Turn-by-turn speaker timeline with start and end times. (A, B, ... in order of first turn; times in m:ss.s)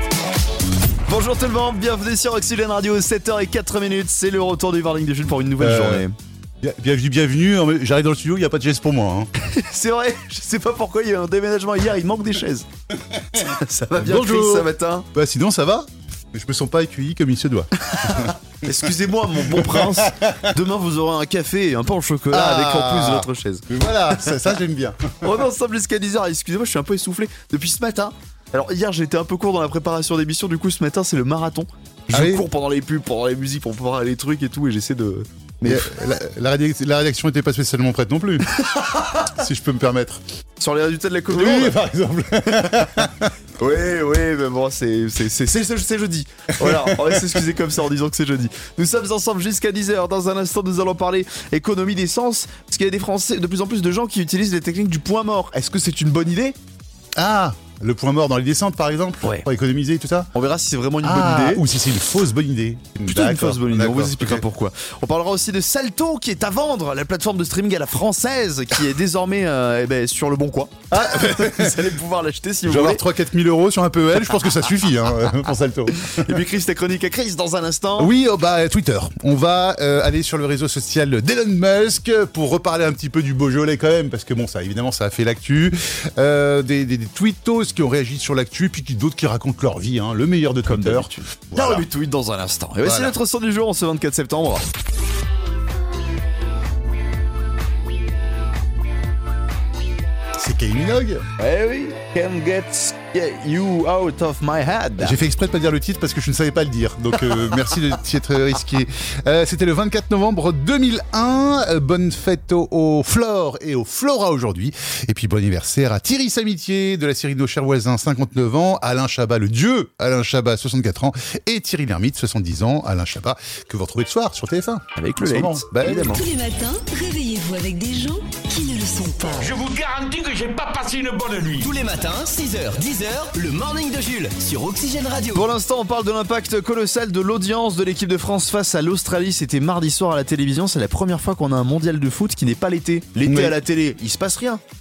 0:01.1-0:06.2 A
0:05.6-0:06.0 B
0:06.6-0:09.3 B
0:09.4-0:12.7 A
0:13.4-0:15.1 A
0:14.0-0:18.4 B
0:18.0-0:23.6 A
0:19.6-0:20.5 B
0:22.3-0:25.4 B
0:25.2-0:35.9 A
0:32.1-0:32.4 B
0:35.6-0:38.6 B
0:39.2-0:40.2 B
0:40.6-0:41.8 A
0:41.3-0:43.3 B
0:42.6-0:42.9 A
0:43.6-0:56.6 A
0:46.6-0:47.4 B
0:57.2-1:00.3 B
1:00.3-1:01.6 A
1:01.0-1:04.4 B
1:03.1-1:13.0 A
1:10.9-1:12.0 B
1:12.6-1:16.4 B
1:16.0-1:18.1 A
1:18.0-1:31.9 B
1:30.6-1:34.6 A
1:32.8-1:33.2 B
1:40.4-1:41.3 B
1:41.4-1:45.2 A
1:45.0-2:06.1 B
2:05.0-2:06.2 A
2:06.0-2:09.5 C
2:09.2-2:11.7 D
2:11.6-2:15.5 E
2:15.3-2:24.6 A
2:23.3-2:23.6 B